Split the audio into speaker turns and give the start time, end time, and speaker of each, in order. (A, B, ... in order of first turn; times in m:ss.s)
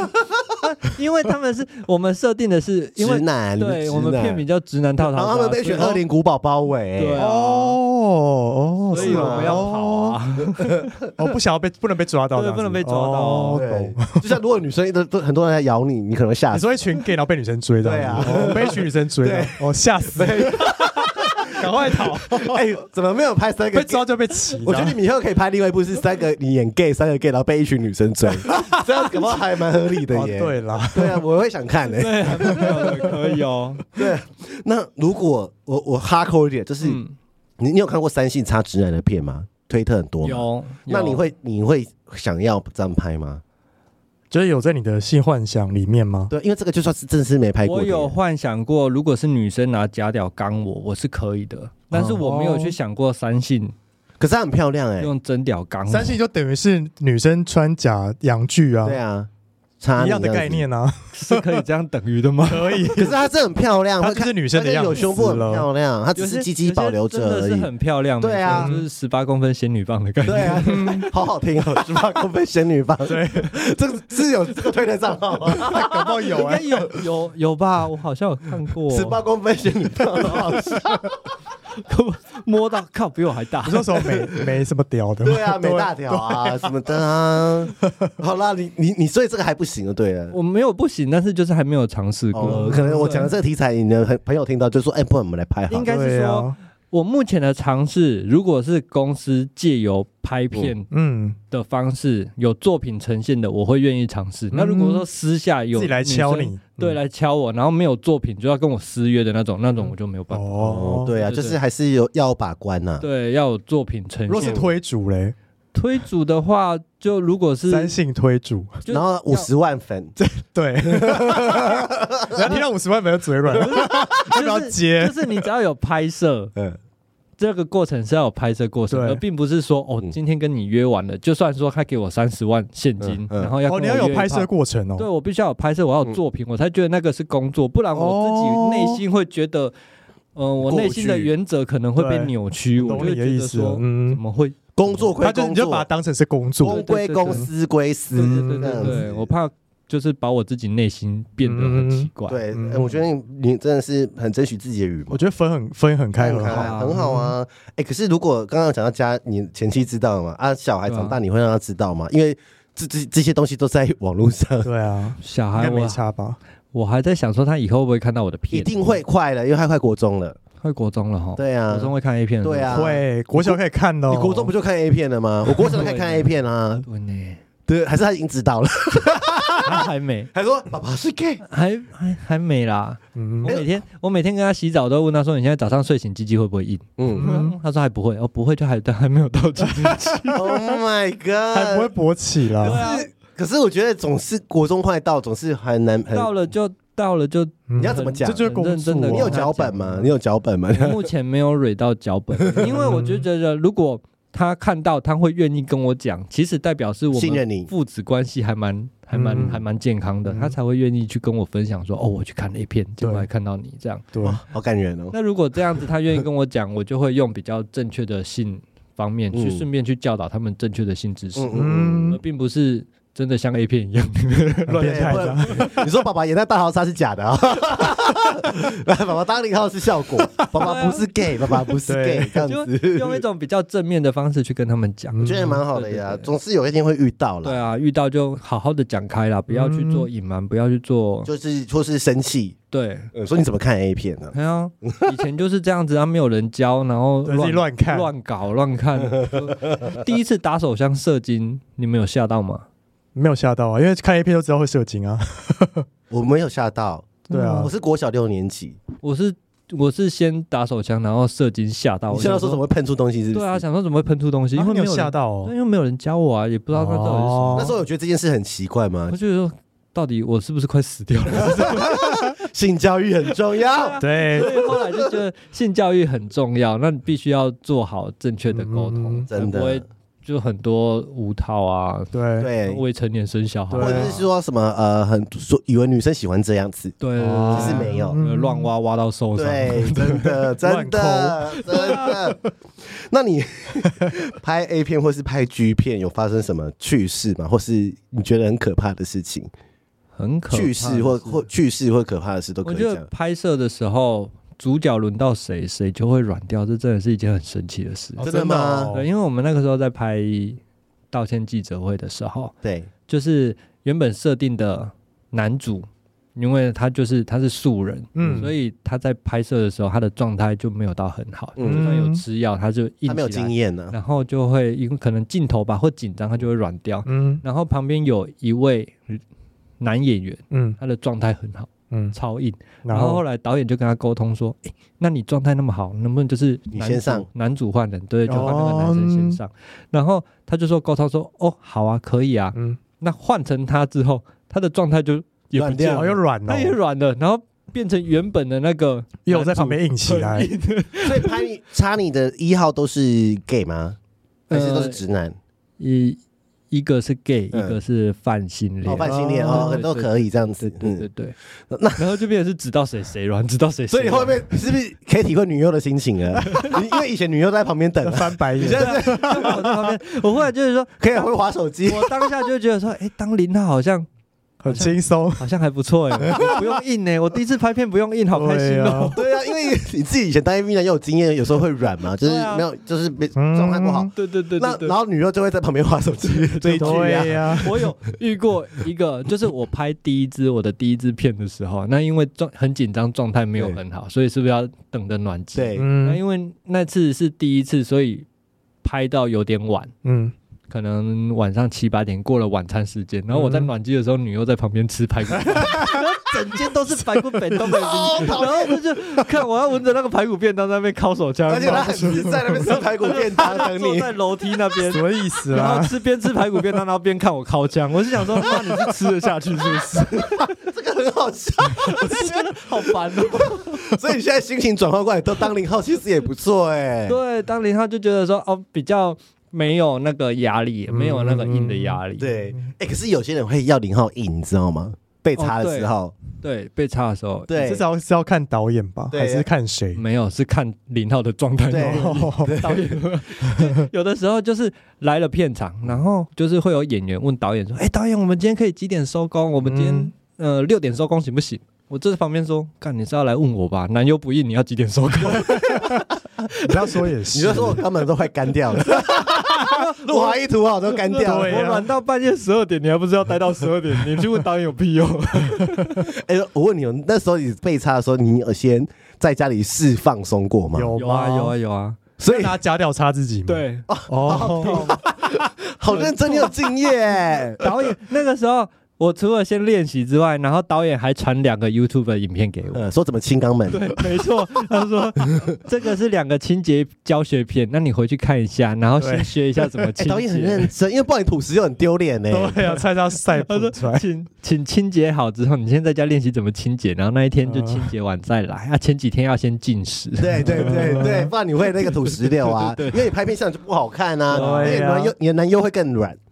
0:00.6-0:06.0 A
0:03.0-0:04.4 B
0:05.0-0:07.2 B
0:07.0-0:07.8 A
0:07.2-0:14.2 C
0:08.9-0:10.9 A
0:08.9-0:09.7 B
0:12.3-0:13.6 A
0:13.5-0:16.7 B
0:16.5-0:22.6 C
0:17.8-0:19.6 B
0:20.1-0:21.4 B
0:22.3-0:33.1 B
0:23.7-0:25.0 C
0:28.4-0:28.8 C
0:30.1-0:31.2 C
0:32.0-0:33.8 A
0:33.9-0:37.0 B
0:36.8-0:37.1 A
0:37.6-0:43.4 B
0:40.2-0:41.2 A
0:44.3-0:46.3 C
0:46.3-0:48.2 B
0:47.6-0:53.7 A
0:51.9-0:52.2 B
0:52.2-0:52.7 C
0:54.2-0:55.1 B
0:55.0-0:56.2 A
0:55.9-0:59.0 C
0:58.8-0:59.3 B
0:59.8-1:00.6 B
1:00.0-1:01.6 C
1:01.1-1:02.9 A
1:02.5-1:03.1 C
1:02.9-1:07.7 B
1:04.0-1:05.7 C
1:06.1-1:11.0 A
1:08.2-1:08.7 B
1:08.5-1:08.8 C
1:10.2-1:16.0 B
1:10.6-1:11.1 C
1:13.1-1:13.5 C
1:15.6-1:16.7 C
1:16.2-1:19.2 A
1:18.9-1:21.1 B
1:21.8-1:23.9 A
1:23.6-1:26.7 C
1:24.1-1:24.4 B
1:25.2-1:30.4 B
1:27.8-1:28.1 C
1:30.3-1:33.3 A
1:32.3-1:35.9 B
1:32.4-1:33.3 C
1:35.7-1:40.9 A
1:35.8-1:36.5 C
1:40.9-1:41.4 C
1:41.5-1:51.6 A
1:44.5-1:45.0 C
1:45.7-1:47.0 C
1:50.3-1:51.1 C
1:50.6-1:53.0 B
1:53.0-1:54.7 A
1:54.3-1:55.3 C
1:54.4-1:54.6 B
1:55.7-1:57.9 A
1:57.7-1:58.8 C
1:58.8-1:59.5 A
1:58.9-2:00.2 B
2:00.2-2:05.4 C
2:00.8-2:02.5 B
2:03.6-2:06.5 A
2:07.4-2:19.7 A
2:08.9-2:09.2 C
2:13.0-2:13.5 B
2:13.6-2:15.1 C
2:17.9-2:19.0 C
2:20.3-2:25.1 A
2:20.6-2:21.3 B
2:22.0-2:24.2 C
2:24.8-2:25.9 B
2:25.2-2:27.4 C
2:26.6-2:29.3 B
2:26.6-2:27.5 A
2:28.1-2:29.0 C
2:28.1-2:32.4 A
2:31.4-2:33.0 C
2:32.3-2:35.2 B
2:35.1-2:37.3 C
2:36.2-2:44.7 B
2:36.4-2:37.0 A
2:40.8-2:41.2 A
2:44.6-2:46.4 C
2:45.2-2:46.0 A
2:46.7-2:49.0 A
2:48.5-2:50.4 B
2:50.6-2:52.9 A
2:51.4-2:56.8 B
2:52.7-2:54.5 C
2:55.6-2:56.3 A
2:56.8-2:57.4 A
2:57.7-3:01.4 B
2:59.6-3:00.3 A
3:01.5-3:10.4 A
3:03.2-3:03.5 C
3:03.4-3:03.7 B
3:07.0-3:07.4 B
3:07.2-3:07.5 C
3:09.8-3:10.8 C
3:10.3-3:11.9 B
3:11.5-3:12.8 C
3:12.6-3:16.3 B
3:12.6-3:13.1 A
3:16.1-3:20.1 A
3:17.7-3:19.4 C
3:17.8-3:18.5 B
3:19.0-3:21.1 B
3:20.7-3:34.0 A
3:22.5-3:22.8 B
3:22.6-3:23.2 C
3:27.1-3:27.7 B
3:29.1-3:29.6 C
3:30.2-3:30.5 C
3:33.0-3:33.3 C
3:34.1-3:34.4 C
3:34.2-3:35.1 B
3:35.1-3:45.7 A
3:39.3-3:39.6 B
3:41.4-3:42.2 B
3:41.5-3:42.2 C
3:44.7-3:45.7 C
3:44.8-3:53.2 B
3:50.6-3:51.0 A
3:51.8-3:52.4 C
3:52.4-3:56.3 A
3:55.1-3:55.6 C
3:55.2-3:57.6 B
3:57.4-4:01.3 A
3:59.5-4:00.1 C
4:01.2-4:02.6 B
4:02.7-4:03.1 A
4:03.1-4:05.0 B
4:04.3-4:12.6 A
4:07.2-4:08.1 C
4:13.1-4:15.8 C
4:16.1-4:18.8 B
4:17.3-4:17.7 A
4:17.3-4:17.7 C
4:19.0-4:22.6 A
4:22.1-4:23.6 B
4:23.3-4:27.7 A
4:24.6-4:25.5 C
4:26.7-4:27.7 C
4:27.5-4:29.1 B
4:29.1-4:32.1 A
4:31.4-4:35.1 B
4:33.7-4:44.2 A
4:34.0-4:34.5 C
4:38.5-4:39.3 C
4:39.3-4:39.8 B
4:42.1-4:42.5 C
4:42.4-4:42.8 B
4:43.7-4:44.2 C
4:43.8-4:47.0 B
4:47.0-4:50.3 A
4:47.2-4:48.7 C
4:47.5-4:48.2 B
4:49.4-4:59.5 B
4:50.6-4:52.2 C
4:51.7-4:52.1 A
5:00.1-5:01.4 A
5:00.5-5:03.1 B
5:02.6-5:08.3 A
5:08.2-5:09.1 C
5:08.2-5:09.0 B
5:08.9-5:10.6 A
5:11.1-5:12.5 A
5:12.6-5:12.9 B
5:13.1-5:29.2 A
5:18.2-5:18.5 C
5:21.6-5:21.9 B
5:21.6-5:22.2 C
5:23.0-5:24.0 B
5:27.0-5:27.4 C
5:29.8-5:51.4 A
5:30.5-5:30.8 C
5:31.9-5:32.2 C
5:32.8-5:33.2 C
5:36.7-5:37.3 B
5:38.3-5:39.4 C
5:45.5-5:46.1 B
5:45.9-5:46.7 C
5:49.2-5:50.5 C
5:51.0-5:54.0 B
5:54.5-5:55.0 A
5:54.5-5:55.4 B
5:55.8-5:56.2 A
5:56.7-6:01.4 A
5:57.5-5:57.8 B
5:58.8-6:01.0 B
5:59.0-5:59.8 C
6:01.7-6:02.0 B
6:01.9-6:04.5 A
6:03.9-6:09.6 B
6:08.0-6:09.9 C
6:08.6-6:11.3 A
6:11.0-6:12.1 B
6:11.8-6:14.1 A
6:14.6-6:15.4 C
6:14.7-6:19.2 A
6:18.3-6:19.1 C
6:19.1-6:27.8 B
6:22.2-6:22.6 A
6:23.4-6:24.1 C
6:24.1-6:24.9 A
6:26.3-6:38.2 A
6:26.7-6:27.7 C
6:35.5-6:35.9 B
6:35.8-6:36.2 C
6:38.8-6:39.9 A
6:40.0-6:40.3 C
6:40.7-7:00.5 A
6:43.3-6:43.7 C
6:45.4-6:46.0 C
6:47.6-6:48.8 B
6:51.5-6:54.1 B
6:51.6-6:52.7 C
6:54.8-6:56.0 C
7:00.2-7:07.2 B
7:01.9-7:03.8 A
7:07.1-7:12.3 A
7:10.9-7:12.0 C
7:12.2-7:16.2 B
7:15.4-7:17.5 A
7:17.5-7:17.8 B
7:17.6-7:20.0 C
7:19.1-7:19.4 B
7:19.9-7:36.9 A
7:21.7-7:23.0 B
7:21.7-7:22.5 C
7:29.6-7:30.1 C
7:35.5-7:36.0 C
7:36.6-7:37.8 C
7:37.3-7:41.8 B
7:39.0-7:40.4 A
7:41.1-7:46.1 A
7:41.2-7:41.9 C
7:46.1-7:51.0 B
7:50.7-7:51.5 C
7:51.0-7:52.0 A
7:52.2-7:52.6 B
7:52.2-7:55.0 C
7:53.4-7:55.0 A
7:53.9-7:57.6 B
7:55.9-7:56.5 A
7:57.6-8:02.8 A
8:02.7-8:04.0 B
8:03.7-8:10.7 A
8:09.0-8:09.8 C
8:10.0-8:12.8 B
8:12.3-8:14.0 C
8:13.4-8:21.3 A
8:17.4-8:17.9 C
8:20.2-8:26.2 B
8:20.5-8:21.3 C
8:22.0-8:23.1 A
8:24.3-8:24.8 A
8:24.3-8:25.1 C